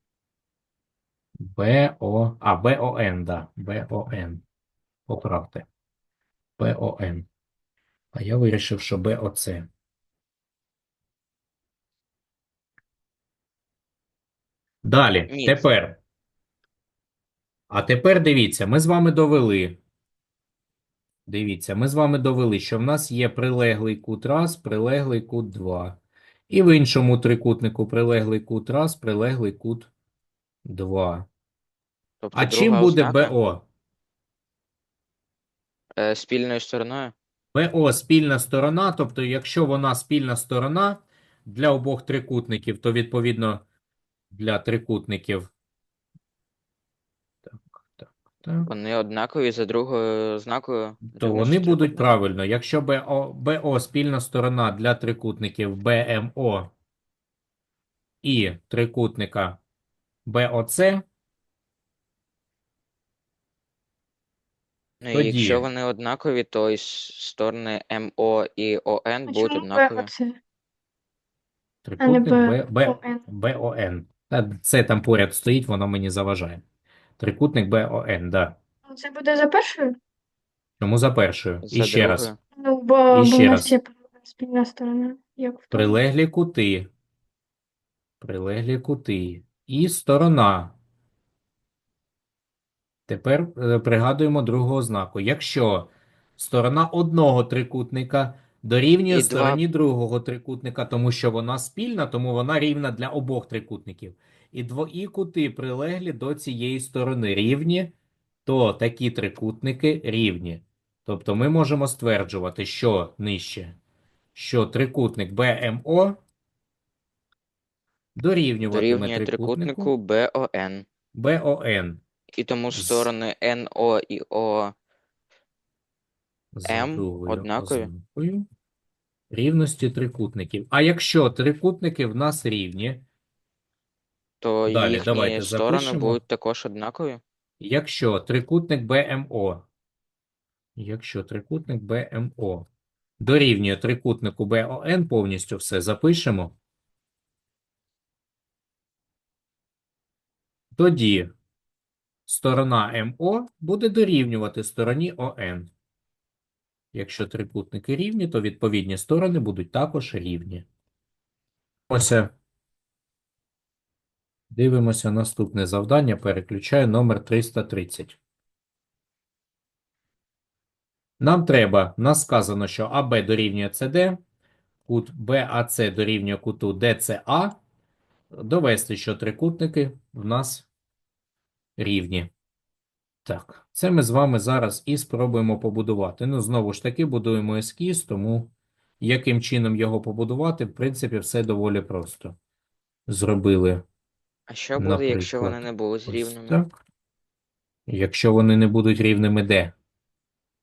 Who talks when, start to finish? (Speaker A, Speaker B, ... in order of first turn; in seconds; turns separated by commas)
Speaker A: 1.4-4.4, Speaker A: 5.1-5.7, Speaker A: 6.6-7.3, Speaker A: 8.1-9.7, Speaker A: 14.8-16.0, Speaker B: 15.3-15.7, Speaker A: 17.7-19.8, Speaker A: 21.3-29.9, Speaker A: 30.7-31.3, Speaker B: 32.2-33.3, Speaker A: 32.3-33.7, Speaker B: 36.0-37.1, Speaker A: 37.5-43.6, Speaker A: 44.3-45.5, Speaker A: 47.5-48.7, Speaker B: 48.6-52.1, Speaker A: 51.1-56.7, Speaker A: 58.2-59.6, Speaker A: 60.3-61.0, Speaker B: 65.0-70.1, Speaker A: 65.1-65.7, Speaker C: 69.3-70.4, Speaker A: 71.8-76.6, Speaker C: 72.0-73.2, Speaker A: 77.2-78.6, Speaker C: 78.9-80.0, Speaker A: 80.8-82.3, Speaker B: 81.6-82.4, Speaker C: 82.6-85.9, Speaker A: 83.1-83.7, Speaker A: 85.7-86.9, Speaker A: 88.2-90.8, Speaker A: 93.1-107.9, Speaker B: 99.1-99.6, Speaker A: 108.5-113.8, Speaker A: 114.3-116.2, Speaker A: 118.2-119.9, Speaker B: 118.7-120.8, Speaker A: 121.1-122.0, Speaker B: 122.4-124.7, Speaker A: 122.7-123.1, Speaker A: 126.5-128.5, Speaker B: 126.7-127.9, Speaker A: 129.3-133.1, Speaker B: 134.4-137.2, Speaker A: 134.7-136.2, Speaker A: 137.6-139.7, Speaker A: 140.8-142.7, Speaker A: 143.2-146.6, Speaker A: 150.8-151.3, Speaker A: 152.3-155.7, Speaker A: 156.9-160.7, Speaker A: 161.9-162.3, Speaker A: 164.5-168.2, Speaker A: 171.2-174.2, Speaker A: 174.9-177.6, Speaker A: 178.3-180.7, Speaker A: 181.8-182.3, Speaker A: 183.2-192.4, Speaker A: 193.1-193.8, Speaker B: 194.5-196.6, Speaker A: 194.8-196.7, Speaker A: 197.9-199.7